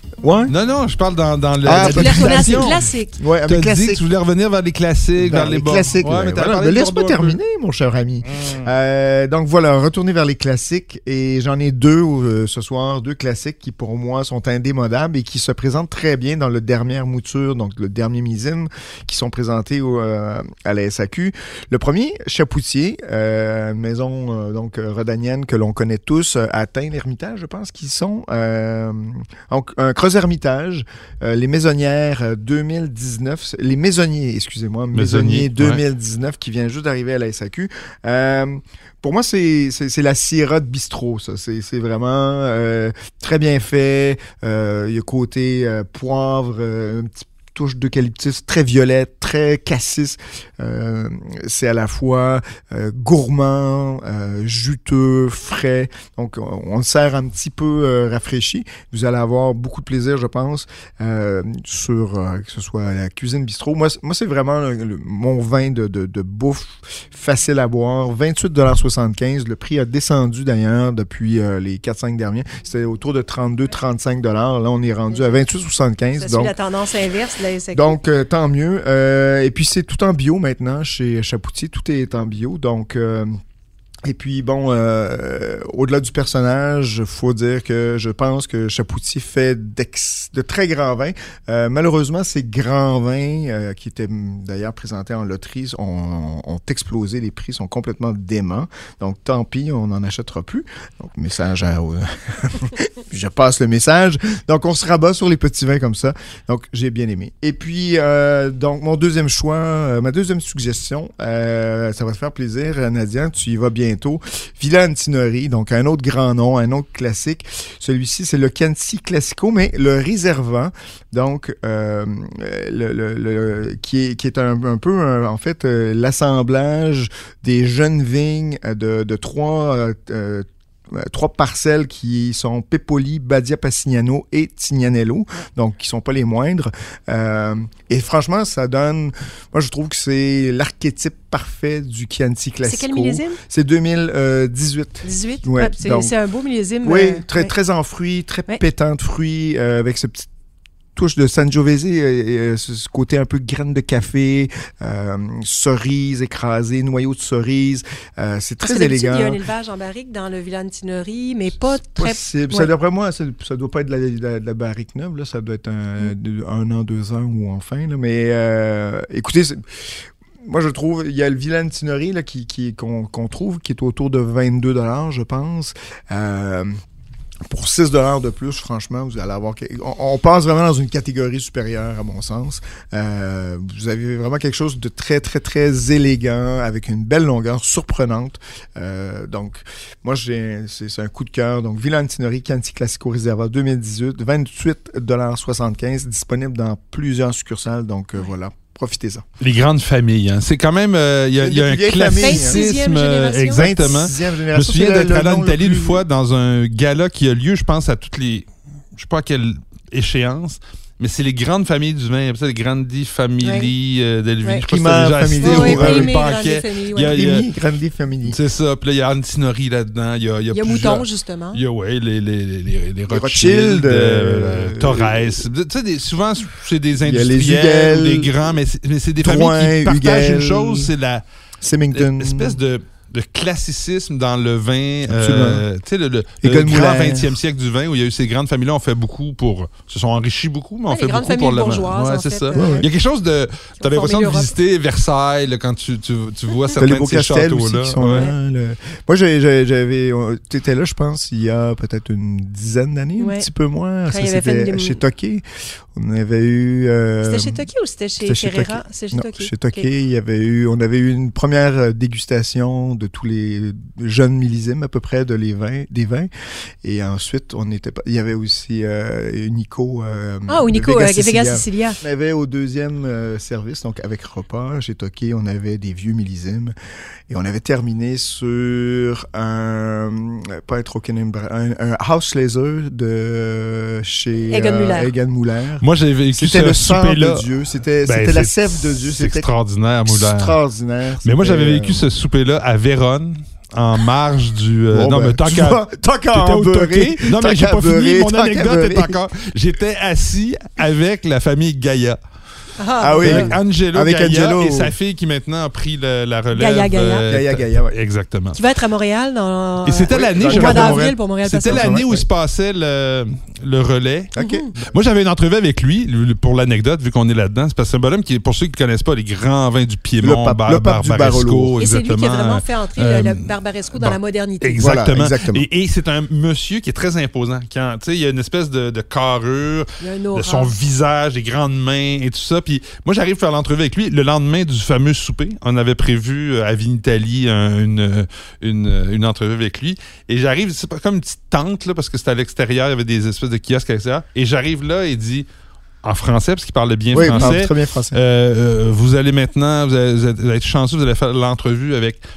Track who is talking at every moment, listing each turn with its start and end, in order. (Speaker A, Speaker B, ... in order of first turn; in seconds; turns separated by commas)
Speaker A: 0.2-0.5, Speaker B: 0.5-2.9, Speaker A: 1.6-4.0, Speaker C: 1.7-3.2, Speaker B: 3.5-7.4, Speaker A: 5.2-76.5, Speaker B: 8.2-8.7, Speaker B: 34.9-35.8, Speaker C: 76.2-78.0, Speaker A: 77.7-83.3, Speaker A: 84.0-146.1, Speaker C: 142.6-143.4, Speaker C: 145.0-147.5, Speaker A: 146.8-150.3, Speaker A: 151.0-159.4, Speaker C: 158.6-162.7, Speaker A: 161.6-169.6, Speaker A: 170.4-176.7, Speaker A: 177.5-199.2, Speaker B: 199.4-217.5, Speaker A: 201.4-202.6, Speaker C: 202.2-203.7, Speaker A: 203.5-206.0, Speaker C: 213.4-213.7, Speaker A: 214.7-216.2, Speaker C: 215.4-217.2, Speaker A: 217.1-218.4, Speaker B: 218.3-231.2, Speaker C: 220.5-221.6, Speaker A: 223.1-225.4, Speaker A: 227.0-228.3, Speaker A: 229.2-230.9, Speaker A: 231.6-232.6, Speaker B: 231.9-248.3, Speaker A: 235.1-235.7, Speaker A: 236.4-237.3, Speaker C: 240.9-242.9, Speaker A: 242.6-242.9, Speaker C: 243.8-244.5, Speaker A: 246.8-257.7, Speaker C: 253.2-253.5, Speaker C: 254.1-255.0, Speaker C: 257.2-259.9, Speaker A: 258.2-266.3, Speaker A: 266.8-276.7, Speaker C: 270.5-272.0, Speaker A: 277.3-289.5, Speaker C: 284.5-285.1, Speaker B: 285.8-287.5, Speaker B: 288.1-290.6, Speaker A: 290.1-292.1, Speaker B: 291.2-302.2, Speaker A: 294.9-299.2, Speaker C: 302.8-303.5, Speaker A: 303.0-304.9, Speaker B: 303.2-308.6, Speaker C: 306.5-307.3, Speaker A: 307.3-308.0, Speaker C: 308.5-312.1, Speaker B: 309.9-345.5, Speaker A: 310.1-312.2, Speaker A: 314.4-314.9, Speaker C: 314.4-314.7, Speaker A: 320.2-321.8, Speaker C: 321.8-324.8, Speaker A: 324.8-325.6, Speaker C: 330.0-330.7, Speaker B: 346.0-352.2, Speaker A: 347.1-348.2